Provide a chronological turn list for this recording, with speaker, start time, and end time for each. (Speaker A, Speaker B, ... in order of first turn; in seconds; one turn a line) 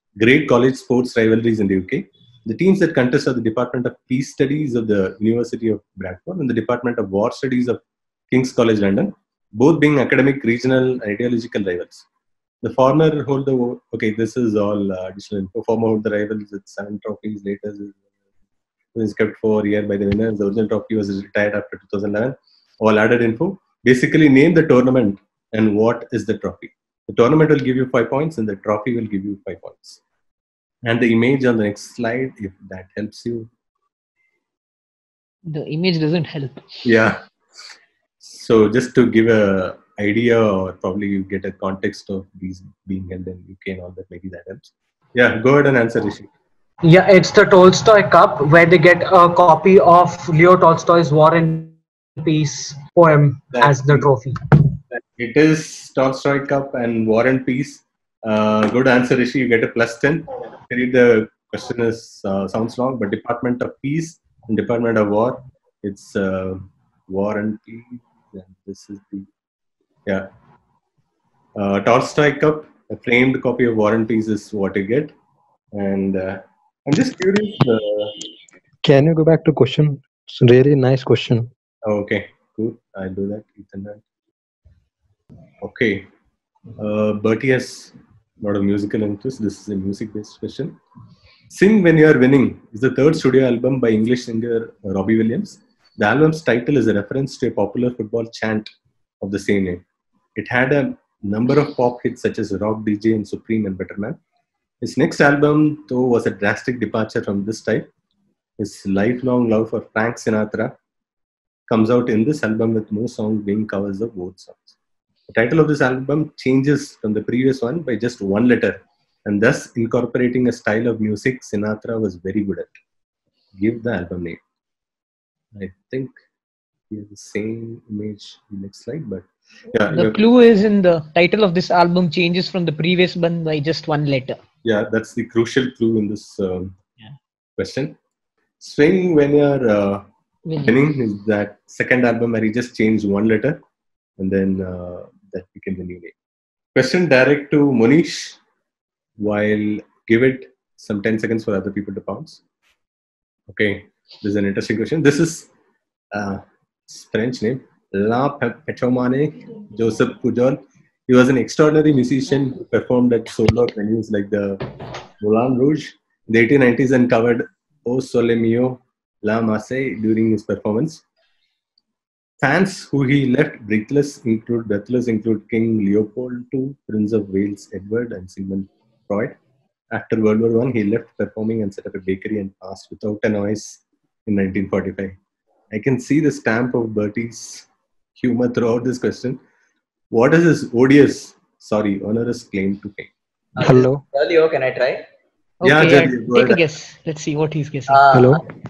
Speaker A: 0.2-12.1
Speaker A: 12.6-18.0
Speaker A: 18.9-30.0
Speaker A: 30.8-33.5
Speaker B: 35.5-36.6
Speaker A: 36.8-37.2
Speaker A: 38.2-46.3
Speaker C: 46.8-54.4
Speaker A: 53.5-54.1
Speaker A: 54.9-69.3
Speaker A: 71.5-75.1
Speaker A: 75.7-78.1
Speaker D: 78.8-81.5
Speaker A: 81.8-84.0
Speaker A: 85.6-86.0
Speaker A: 86.8-90.8
Speaker A: 91.5-99.8
Speaker A: 100.3-104.2
Speaker A: 104.8-107.9
Speaker A: 108.6-110.7
Speaker A: 111.7-114.8
Speaker A: 115.3-122.7
Speaker A: 123.6-124.4
Speaker A: 125.5-126.1
Speaker A: 126.9-130.2
Speaker B: 129.9-134.4
Speaker A: 134.6-136.8
Speaker A: 137.6-137.9
Speaker A: 138.6-140.0
Speaker B: 140.5-140.8
Speaker A: 140.6-143.6
Speaker A: 144.2-146.1
Speaker A: 146.7-148.4
Speaker A: 149.2-152.4
Speaker A: 153.5-155.5
Speaker A: 156.1-164.6
Speaker A: 165.2-171.0
Speaker A: 172.4-179.3
Speaker A: 179.9-185.2
Speaker A: 185.7-189.4
Speaker A: 190.1-193.1
Speaker E: 193.6-195.0
Speaker D: 193.6-194.0
Speaker B: 195.6-198.1
Speaker A: 195.6-196.6
Speaker E: 197.9-198.4
Speaker D: 198.1-198.4